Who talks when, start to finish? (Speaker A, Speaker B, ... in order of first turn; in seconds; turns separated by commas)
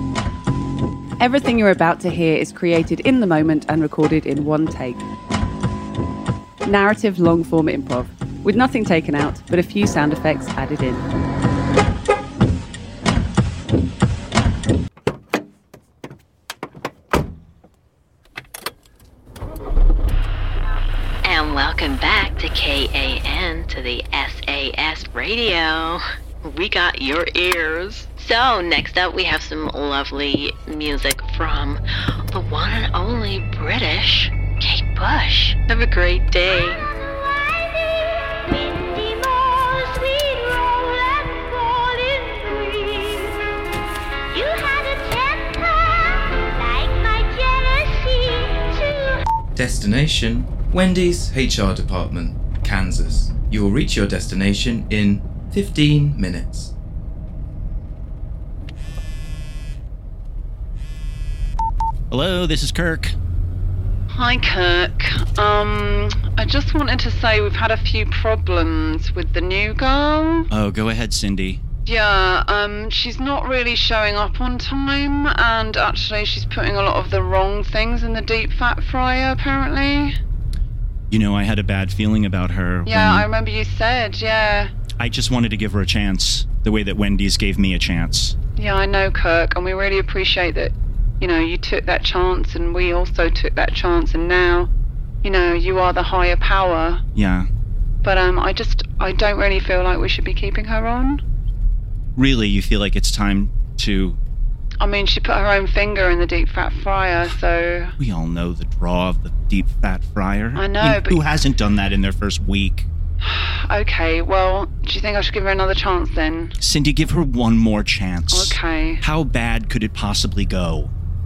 Speaker A: 1.2-2.3, Speaker B: 1.2-5.0, Speaker A: 6.7-8.9, Speaker B: 6.7-7.7, Speaker B: 8.5-10.8, Speaker A: 9.5-11.0, Speaker C: 21.2-36.8, Speaker C: 44.3-45.0, Speaker D: 49.5-56.7, Speaker E: 62.1-63.1, Speaker A: 64.1-70.5, Speaker E: 70.5-71.6, Speaker A: 71.9-80.2, Speaker E: 81.1-83.3, Speaker A: 82.9-84.7, Speaker E: 85.0-88.3, Speaker A: 88.6-94.7, Speaker A: 95.2-97.0, Speaker E: 97.1-97.5, Speaker A: 98.0-101.2, Speaker E: 102.2-104.2, Speaker A: 104.8-107.9, Speaker E: 108.0-112.9, Speaker A: 110.5-111.2, Speaker A: 113.2-116.5, Speaker E: 116.6-120.9, Speaker A: 118.3-119.0